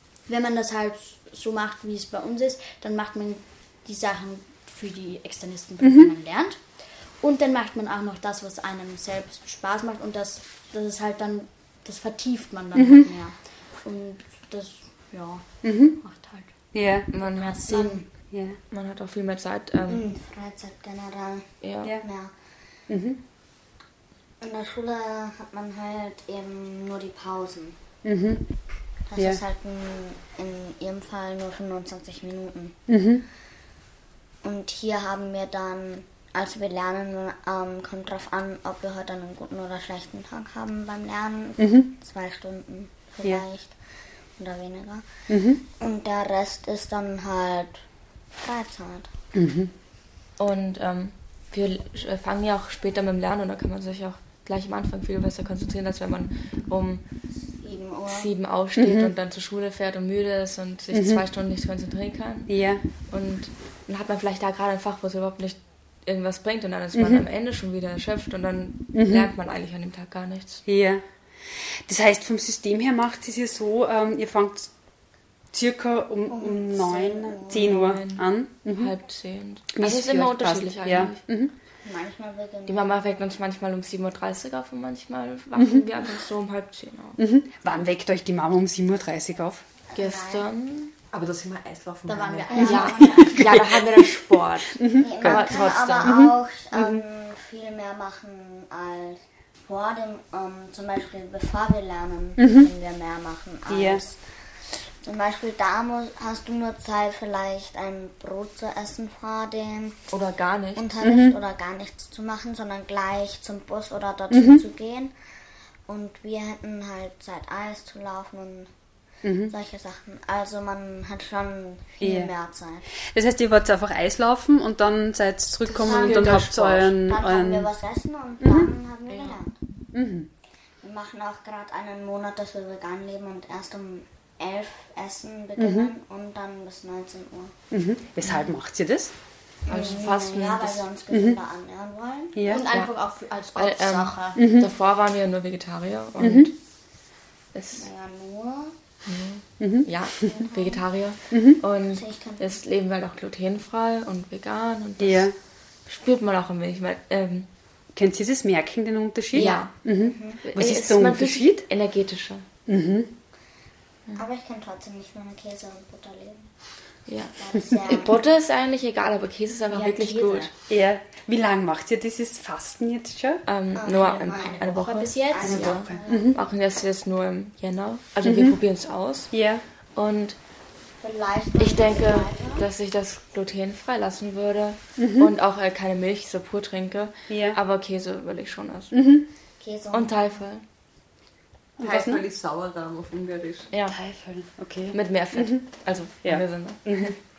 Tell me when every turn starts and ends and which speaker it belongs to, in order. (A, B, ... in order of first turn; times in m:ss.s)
0:00.3-0:16.6 A
0:12.8-0:13.1 B
0:15.6-0:16.0 B
0:16.7-0:17.1 B
0:17.1-0:20.0 C
0:17.3-0:18.0 A
0:17.7-0:18.0 D
0:18.3-0:18.6 B
0:19.9-0:22.3 D
0:21.6-0:21.9 C
0:22.9-0:23.2 B
0:24.4-0:27.8 D
0:28.0-0:28.5 B
0:29.1-0:32.8 D
0:32.9-0:33.2 B
0:34.4-0:43.8 D
0:41.6-0:41.9 B
0:44.3-0:45.1 D
0:45.3-0:45.6 B
0:45.8-0:47.9 D
0:48.4-0:49.1 D
0:49.3-0:49.7 B
0:50.4-0:57.0 C
0:57.6-0:58.3 D
0:58.1-1:10.6 C
0:58.8-0:59.1 B
1:00.9-1:01.2 B
1:02.5-1:02.8 B
1:06.9-1:07.2 B
1:08.9-1:09.3 B
1:10.7-1:14.7 B
1:15.5-1:18.9 B
1:16.3-1:17.8 D
1:17.5-1:21.2 C
1:19.7-1:21.5 B
1:21.8-1:22.9 D
1:22.7-1:27.2 C
1:25.6-1:25.8 B
1:27.2-1:29.6 B
1:29.9-1:30.4 D
1:30.0-1:30.9 C
1:31.1-1:32.8 E
1:32.1-1:33.6 A
1:32.5-1:33.0 D
1:32.6-1:36.2 C
1:34.8-1:35.5 B
1:35.0-1:50.0 D
1:36.0-1:37.0 B
1:42.4-1:42.7 B
1:43.7-1:44.0 B
1:50.1-1:50.9 C
1:50.8-1:55.1 D
1:51.0-1:51.4 B
1:54.3-1:54.6 B
1:55.9-1:58.7 D
1:59.2-1:59.5 B
1:59.5-2:02.8 D
2:02.0-2:02.3 B
2:03.0-2:07.7 B
2:05.8-2:09.6 D
2:05.8-2:06.8 C
2:08.4-2:08.7 B
2:09.9-2:10.3 B
2:10.8-2:17.5 D
2:15.6-2:15.9 B
2:17.7-2:19.2 B
2:19.6-2:22.4 D
2:19.7-2:20.9 C
2:21.1-2:21.4 B
2:22.4-2:22.6 B
2:22.4-2:24.5 A
2:23.5-2:26.5 C
2:24.4-2:24.7 B
2:26.2-2:26.5 B
2:27.5-2:27.9 C
2:27.8-2:28.8 D
2:29.0-2:35.3 C
2:29.6-2:29.9 B
2:30.2-2:30.8 D
2:31.3-2:31.6 B
2:31.9-2:32.5 D
2:35.0-2:35.3 B
2:35.8-2:37.5 C
2:37.9-2:41.6 B
2:39.3-2:42.5 C
2:39.4-2:40.4 D
2:42.7-2:43.1 B
2:44.2-2:46.5 D
2:47.1-2:50.5 C
2:47.4-2:48.1 D
2:49.7-2:50.5 A
2:50.7-2:53.4 B
2:53.5-3:00.4 C
2:53.8-2:56.4 D
2:54.3-2:55.7 A
2:55.4-2:56.4 B
2:58.2-2:58.6 B
2:59.3-2:59.6 B
3:01.0-3:02.6 D
3:01.6-3:09.0 C
3:05.0-3:05.3 B
3:07.3-3:07.6 B
3:08.9-3:09.2 B
3:09.6-3:10.2 D
3:09.9-3:10.6 C
3:11.8-3:12.2 B
3:11.8-3:13.7 E
3:13.7-3:14.0 C
3:13.9-3:15.7 B
3:14.9-3:17.2 C
3:16.2-3:17.1 B